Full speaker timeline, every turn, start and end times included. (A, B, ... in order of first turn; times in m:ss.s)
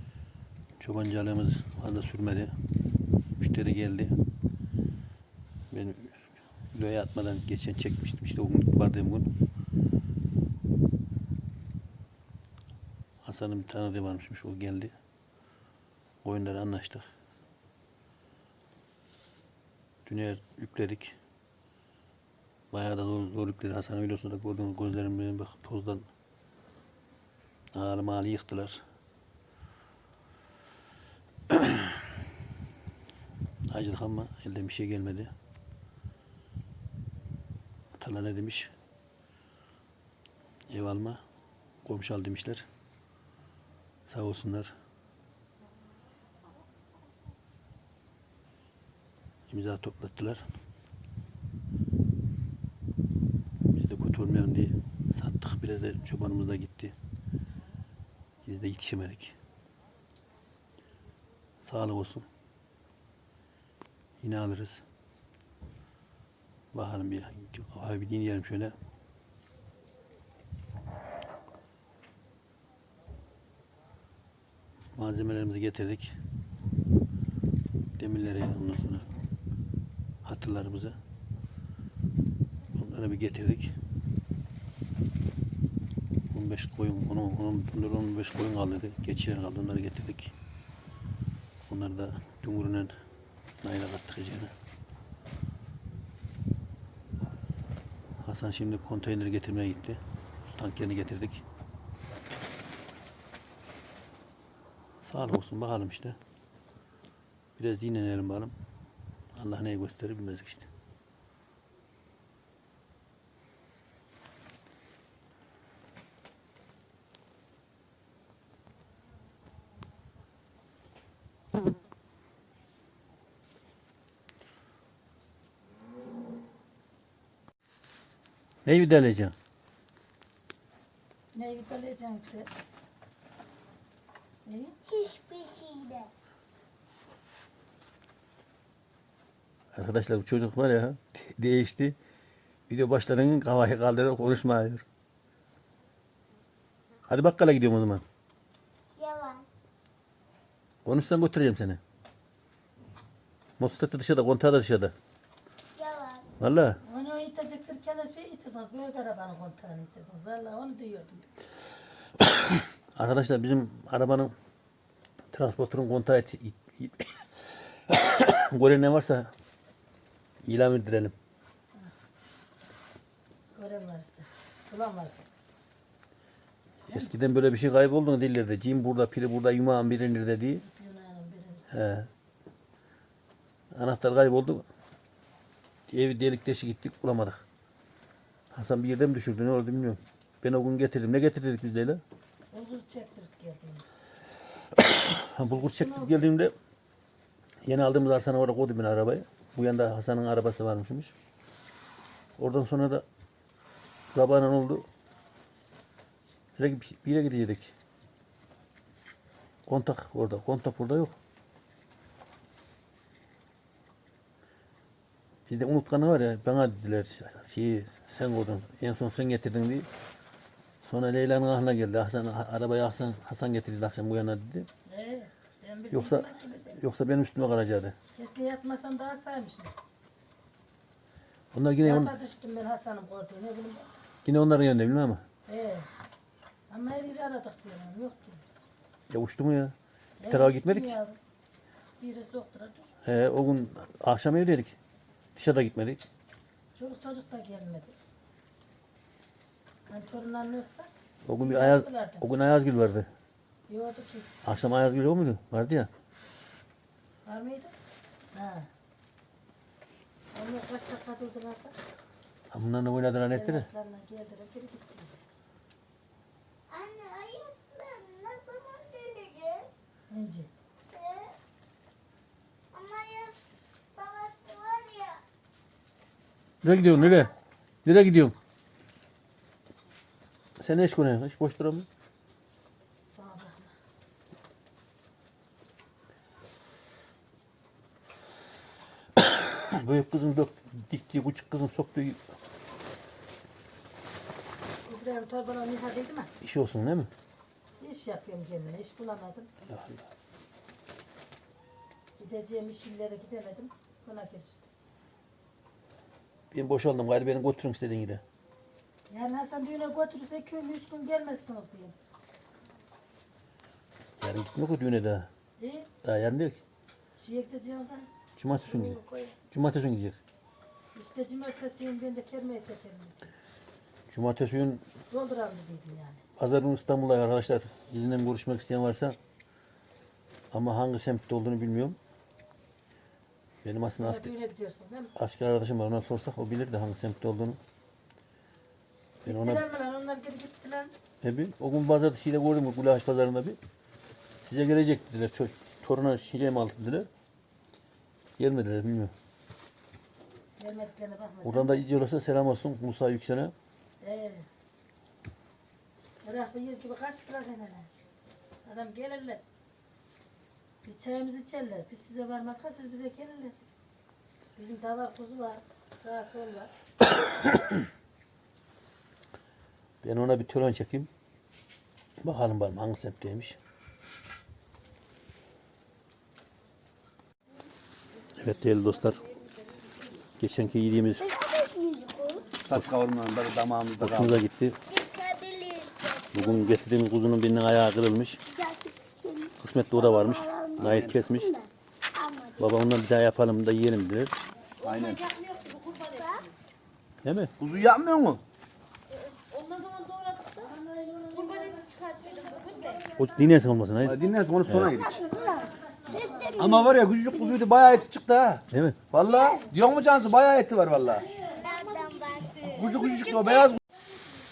0:00.8-0:02.5 A
0:03.4-0:04.1 A
0:05.7-0:09.3 A
0:13.2-0:14.9 A
0:16.2-0:17.0 A
0:20.0-0:21.2 A
0:22.7-0:26.1 A
0:27.7-0:28.8 A
0:31.5-0:32.0 A
0:33.7-0:35.3 A
0:38.0-0:38.7 A
0:40.7-0:41.2 A
0:41.8-0:42.7 A
0:44.1-0:44.7 A
0:49.5-0:50.4 A
0:53.7-0:56.9 A
0:58.4-0:59.3 A
1:01.6-1:02.2 A
1:04.2-1:04.8 A
1:06.7-1:08.7 A
1:14.9-1:16.1 A
1:18.0-1:19.0 A
1:20.2-1:21.0 A
1:22.8-1:23.7 A
1:26.3-1:30.3 A
1:31.7-1:32.9 A
1:33.6-1:34.5 A
1:38.2-1:40.0 A
1:40.6-1:41.4 A
1:45.0-1:46.2 A
1:47.6-1:48.6 A
1:49.3-1:50.7 A
2:08.6-2:09.3 A
2:11.3-2:12.5 B
2:14.4-2:14.8 B
2:14.8-2:16.1 C
2:19.7-2:22.0 A
2:22.7-2:24.8 A
2:27.1-2:28.0 A
2:29.0-2:29.4 C
2:30.8-2:31.8 A
2:33.6-2:34.9 A
2:35.8-2:36.2 C
2:36.4-2:36.8 A
2:36.8-2:41.3 B
2:42.2-2:44.3 A
2:45.3-2:47.2 A
2:47.9-2:49.3 A
2:50.4-2:51.1 A
2:53.5-2:55.2 B
2:56.9-3:00.6 A
3:00.6-3:01.7 B
3:01.7-3:02.1 A
3:03.7-3:04.6 A
3:05.9-3:07.4 A
3:08.5-3:12.0 A
3:12.5-3:13.8 B
3:14.8-3:16.5 A
3:15.5-3:16.1 B
3:17.7-3:21.1 A
3:22.4-3:23.0 A
3:24.1-3:24.8 A
3:26.6-3:27.7 A
3:29.7-3:31.2 A
3:35.5-3:39.9 A
3:40.8-3:44.7 A
3:44.9-3:46.8 B
3:45.9-3:47.9 A
3:48.2-3:49.8 B
3:51.5-3:52.2 A
3:51.8-3:53.9 B
3:54.2-3:55.2 A
3:55.5-3:55.9 B
3:56.7-3:58.4 B
3:59.1-3:59.7 A
4:00.2-4:01.2 B
4:00.3-4:01.0 A
4:02.0-4:03.0 B
4:03.0-4:04.8 A
4:05.4-4:06.0 A
4:06.8-4:07.9 B
4:09.9-4:10.9 B
4:11.2-4:13.1 A
4:11.4-4:12.2 B
4:13.7-4:14.3 B
4:14.4-4:15.9 A
4:17.3-4:17.7 B
4:18.3-4:18.7 B
4:20.3-4:21.8 B
4:22.5-4:23.7 A
4:23.3-4:25.4 B
4:26.7-4:29.7 C
4:30.1-4:30.5 B
4:30.9-4:31.3 C
4:32.7-4:35.2 C
4:36.6-4:37.3 A
4:37.8-4:38.4 A
4:40.6-4:41.9 A
4:43.2-4:43.7 B
4:49.2-4:52.2 A
4:54.8-4:56.3 B
4:56.4-4:57.1 A
4:57.8-4:59.5 B
4:59.7-5:00.1 A
5:02.2-5:04.6 B
5:06.5-5:08.2 A
5:09.1-5:12.0 B
5:14.2-5:15.3 A
5:15.6-5:15.9 B
5:16.0-5:16.6 A
5:17.2-5:18.1 B
5:18.4-5:19.0 A
5:18.6-5:19.4 B
5:19.5-5:20.2 A
5:20.9-5:23.2 B
5:24.1-5:24.8 A
5:25.1-5:26.2 B
5:26.4-5:29.2 A
5:30.5-5:32.0 A
5:33.6-5:34.3 A
5:34.0-5:35.1 B
5:35.2-5:37.6 A
5:39.2-5:40.9 B
5:39.3-5:39.6 A
5:41.2-5:43.6 A
5:44.4-5:47.1 A
5:48.4-5:49.1 A
5:50.6-5:51.8 B
5:51.4-5:53.5 A
5:54.0-5:54.5 B
5:56.2-5:57.9 B
5:58.6-5:59.4 B
6:00.8-6:03.6 B
6:04.6-6:06.7 B
6:10.0-6:11.1 A
6:12.2-6:13.6 A
6:18.4-6:19.2 A
6:20.4-6:21.3 A
6:21.2-6:22.5 C
6:22.5-6:24.4 D
6:24.0-6:24.8 A
6:24.9-6:26.7 C
6:26.3-6:28.4 A
6:28.5-6:32.8 C
6:29.6-6:31.5 A
6:30.8-6:31.3 D
6:32.6-6:34.4 A
6:34.8-6:35.2 D
6:35.0-6:36.5 E
6:36.2-6:36.5 C
6:37.2-6:37.5 A
6:37.6-6:38.4 D
6:39.7-6:40.5 E
6:40.6-6:41.6 B
6:41.7-6:42.9 E
6:43.2-6:45.0 A
6:44.0-6:45.2 D
6:45.0-6:46.7 C
6:46.1-6:46.6 B
6:46.5-6:51.4 D
6:48.7-6:49.0 A
6:51.6-6:52.5 C
6:51.9-6:52.9 E
6:52.4-6:53.8 D
6:53.2-6:53.7 C